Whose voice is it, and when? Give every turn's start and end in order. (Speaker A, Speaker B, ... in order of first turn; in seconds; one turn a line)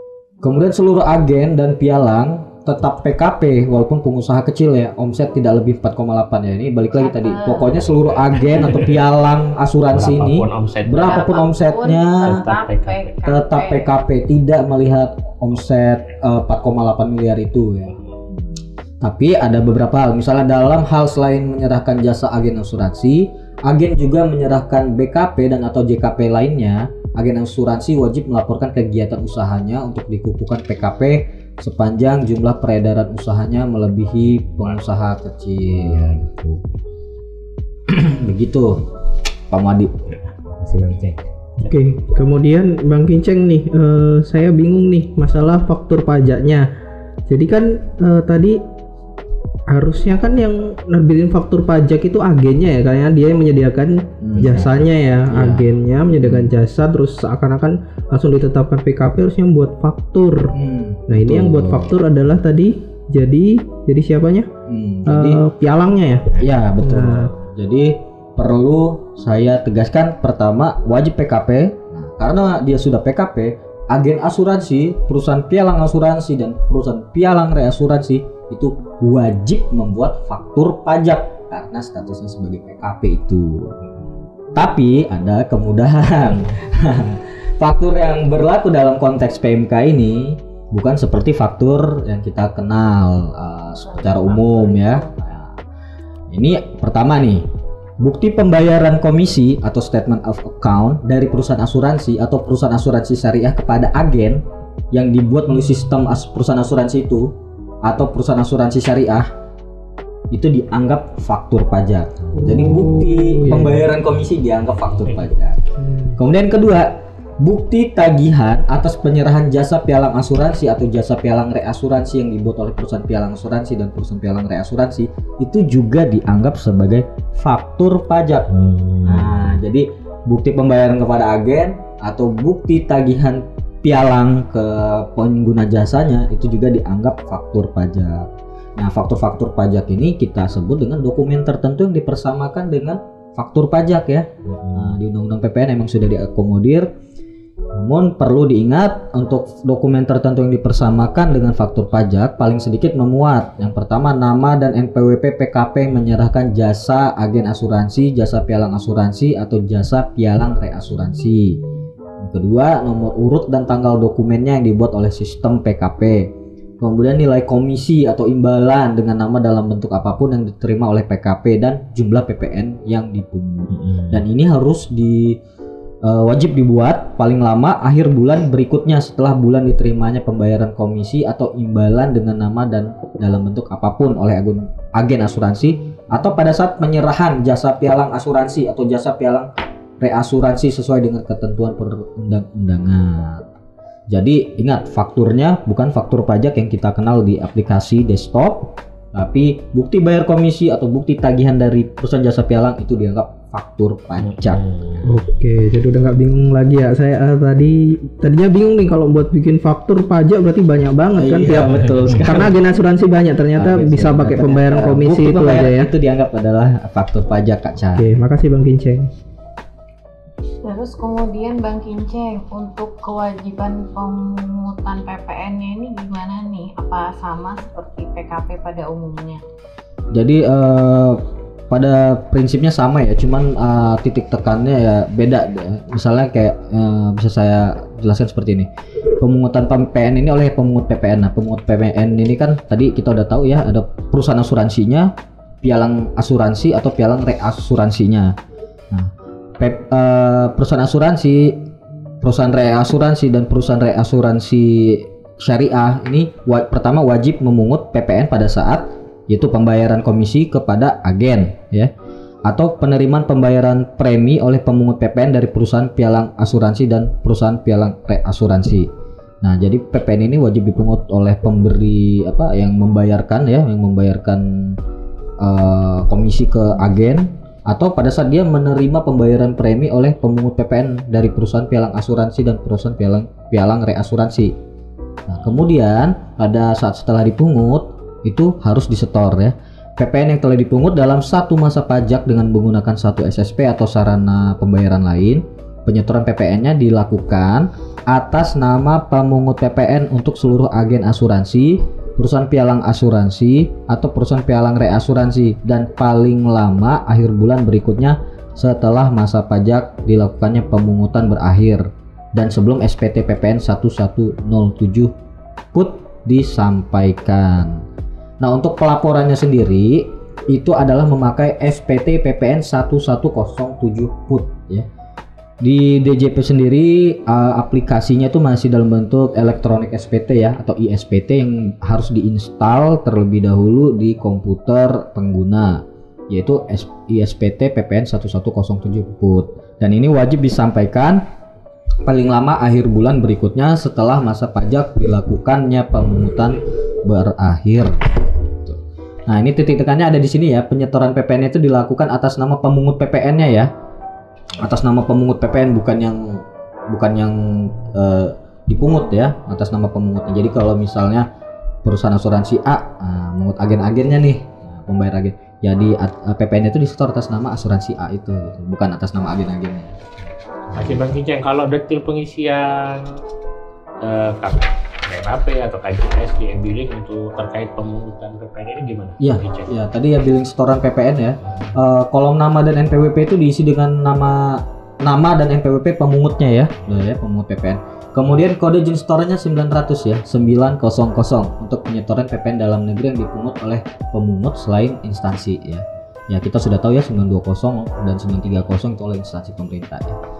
Speaker A: 0.4-12.4
Speaker B: 6.9-7.8
Speaker C: 7.9-8.9
Speaker B: 8.3-8.7
Speaker C: 9.9-11.3
Speaker B: 11.0-13.9
Speaker C: 12.2-13.1
Speaker A: 13.2-17.9
Speaker C: 17.9-18.1
Speaker A: 19.0-36.2
Speaker C: 34.2-34.8
Speaker C: 35.6-36.7
Speaker A: 37.9-38.8
Speaker A: 39.5-39.9
Speaker C: 40.1-41.7
Speaker D: 41.6-46.7
Speaker D: 47.3-48.6
Speaker D: 49.7-60.5
Speaker A: 54.2-54.8
Speaker C: 54.4-54.7
Speaker A: 55.3-55.6
Speaker A: 56.2-56.5
Speaker A: 60.5-61.7
Speaker D: 61.1-64.5
Speaker A: 64.7-65.4
Speaker D: 65.1-67.3
Speaker A: 66.4-83.8
Speaker A: 84.5-95.5
Speaker B: 93.9-95.2
Speaker A: 96.3-97.5
Speaker A: 98.0-107.3
Speaker A: 107.8-109.3
Speaker A: 110.3-115.6
Speaker D: 112.5-113.8
Speaker C: 114.9-115.2
Speaker A: 116.2-128.5
Speaker C: 128.5-129.6
Speaker A: 129.0-146.9
Speaker C: 144.5-144.9
Speaker A: 147.7-161.6
Speaker A: 162.2-175.4
Speaker C: 173.7-174.2
Speaker A: 176.0-189.5
Speaker A: 190.0-193.4
Speaker A: 194.1-205.0
Speaker C: 204.2-205.1
Speaker D: 205.1-215.9
Speaker A: 211.2-212.5
Speaker C: 211.8-212.4
Speaker A: 213.6-218.1
Speaker D: 217.9-219.1
Speaker B: 220.6-229.4
Speaker A: 230.1-248.3
Speaker A: 248.9-251.7
Speaker A: 252.2-261.9
Speaker A: 262.4-268.9
Speaker A: 269.4-274.8
Speaker A: 275.4-284.6
Speaker A: 285.3-315.1
Speaker A: 315.7-317.8
Speaker A: 318.4-324.9
Speaker A: 325.6-341.2
Speaker A: 342.1-353.7
Speaker A: 354.6-361.3
Speaker A: 361.8-370.0
Speaker A: 370.7-371.0
Speaker C: 370.7-373.1
Speaker C: 374.0-379.7
Speaker A: 379.2-400.2